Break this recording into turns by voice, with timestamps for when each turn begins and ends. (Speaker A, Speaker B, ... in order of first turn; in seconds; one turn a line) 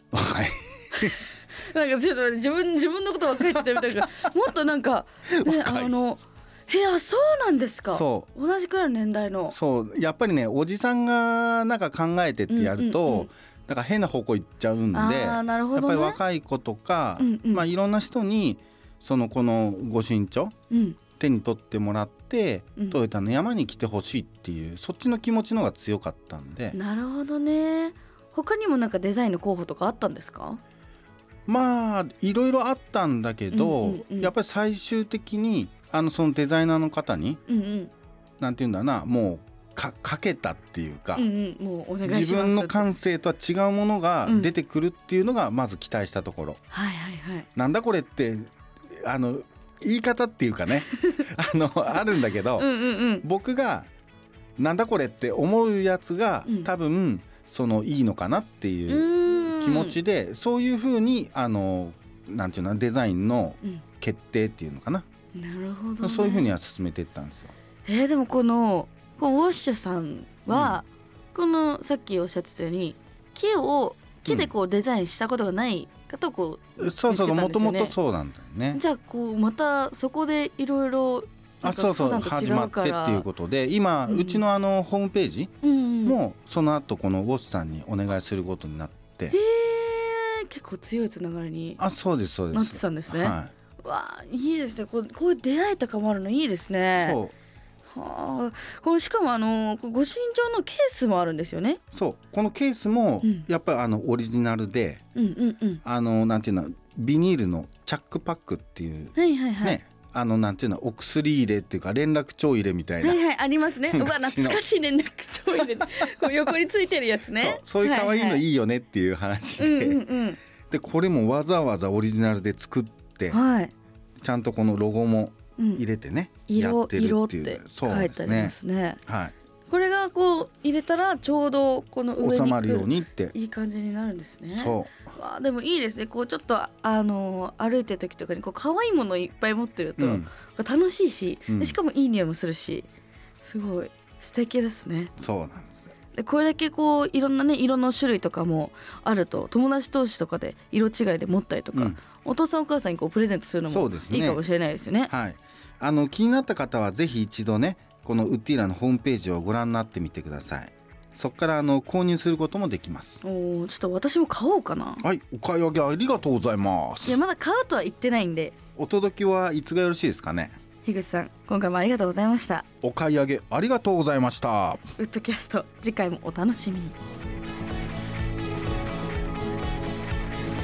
Speaker A: 0.1-1.2
Speaker B: 0.9-9.6
Speaker A: 5.3-5.9
Speaker A: 7.9-8.3
Speaker A: 9.5-20.5
Speaker B: 12.5-13.3
Speaker B: 14.9-16.2
Speaker B: 17.2-17.7
Speaker B: 20.7-21.0
Speaker A: 21.2-26.8
Speaker B: 26.7-30.6
Speaker A: 31.5-37.4
Speaker B: 33.5-34.3
Speaker B: 37.5-37.9
Speaker A: 38.4-41.3
Speaker B: 41.1-42.9
Speaker A: 42.0-46.6
Speaker B: 46.7-47.5
Speaker A: 47.5-52.7
Speaker B: 50.9-51.2
Speaker B: 52.5-53.2
Speaker A: 53.2-53.9
Speaker A: 54.6-65.0
Speaker B: 58.9-60.0
Speaker B: 65.3-66.5
Speaker A: 66.0-67.5
Speaker B: 67.8-77.9
Speaker A: 70.5-70.8
Speaker A: 74.2-74.5
Speaker A: 76.8-78.8
Speaker B: 78.7-83.3
Speaker A: 81.6-89.3
Speaker B: 84.1-84.4
Speaker B: 85.6-86.2
Speaker B: 89.3-91.8
Speaker A: 91.8-93.5
Speaker B: 92.5-97.2
Speaker A: 97.0-97.3
Speaker B: 97.9-101.8
Speaker A: 101.9-105.0
Speaker B: 105.1-105.8
Speaker A: 105.8-113.2
Speaker B: 109.1-109.8
Speaker B: 113.0-118.4
Speaker A: 113.9-114.6
Speaker A: 117.3-120.0
Speaker B: 119.6-120.4
Speaker A: 120.7-123.4
Speaker B: 123.3-123.7
Speaker A: 124.2-129.3
Speaker B: 125.6-125.8
Speaker B: 126.5-129.0
Speaker B: 129.7-142.9
Speaker A: 132.2-133.3
Speaker A: 134.5-135.1
Speaker A: 140.0-140.3
Speaker A: 141.5-141.8
Speaker B: 143.4-145.1
Speaker A: 145.2-145.9
Speaker B: 146.1-155.1
Speaker A: 151.7-152.0
Speaker A: 153.7-154.4
Speaker A: 155.1-163.2
Speaker B: 163.2-165.1
Speaker A: 165.0-167.2
Speaker B: 167.0-168.5
Speaker A: 168.8-170.6
Speaker B: 170.8-172.7
Speaker A: 172.8-174.9
Speaker B: 175.0-176.9